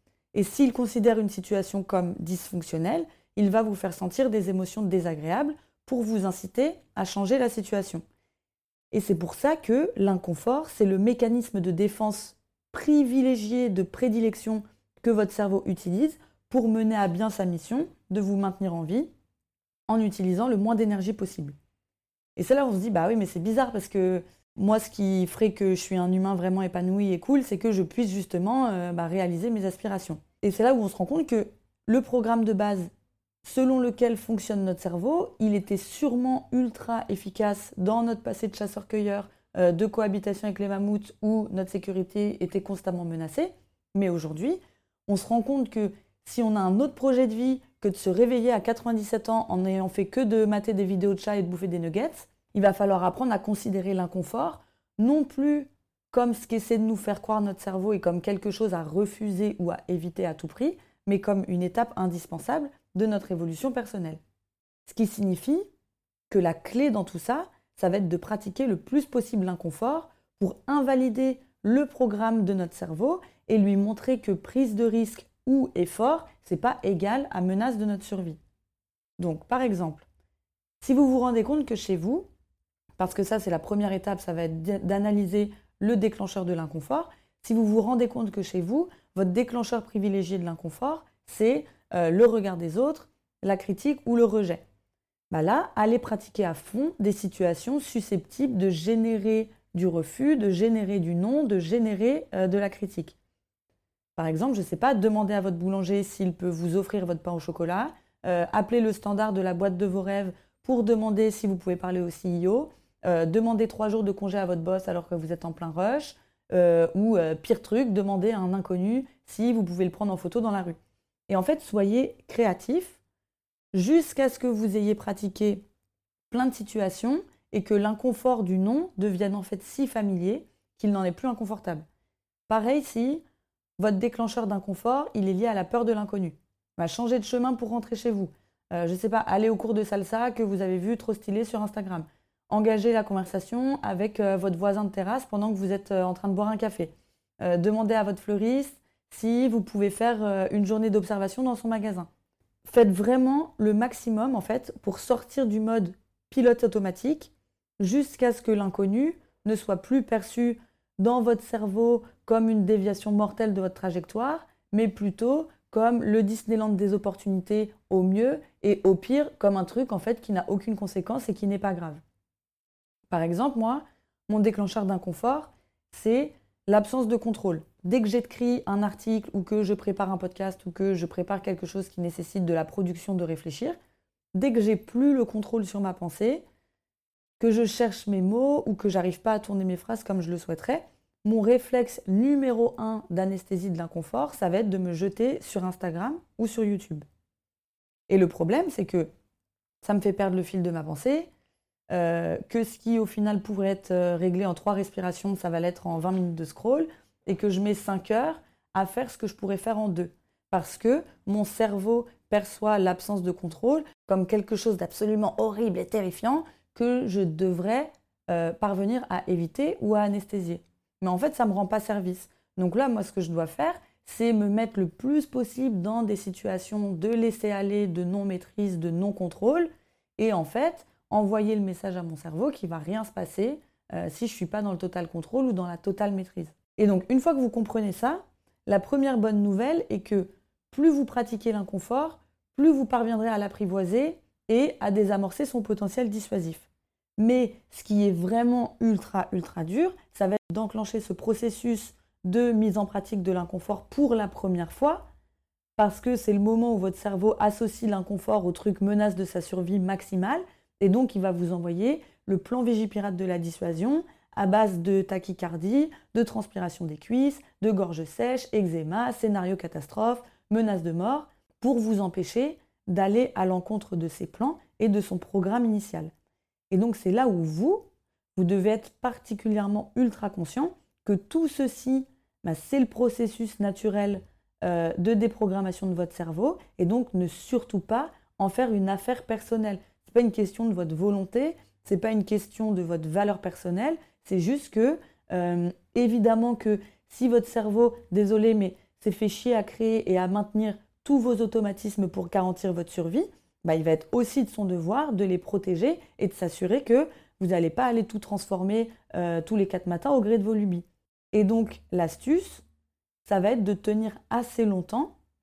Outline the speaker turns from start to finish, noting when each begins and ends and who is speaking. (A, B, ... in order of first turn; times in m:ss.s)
0:00.3-0:08.0 A
0:08.9-0:19.1 A
0:19.9-0:21.6 A
0:22.4-0:32.9 A
0:33.4-1:04.2 A
1:04.8-1:05.6 A
1:06.3-1:18.4 A
1:19.2-1:20.0 A
1:20.8-1:22.2 A
1:23.0-1:34.6 A
1:35.3-1:43.2 A
1:44.2-2:00.8 A
2:01.3-2:03.0 A
2:03.7-2:05.6 A
2:06.3-2:11.8 A
2:12.5-2:13.2 A
2:13.8-2:32.1 A
2:32.6-2:52.0 A
2:53.1-3:03.8 A
3:04.3-3:06.4 A
3:07.4-3:17.0 A
3:18.1-3:19.1 A
3:19.8-3:21.3 A
3:21.9-4:15.0 A
4:15.8-4:36.1 A
4:36.7-5:12.6 A
5:13.2-5:15.1 A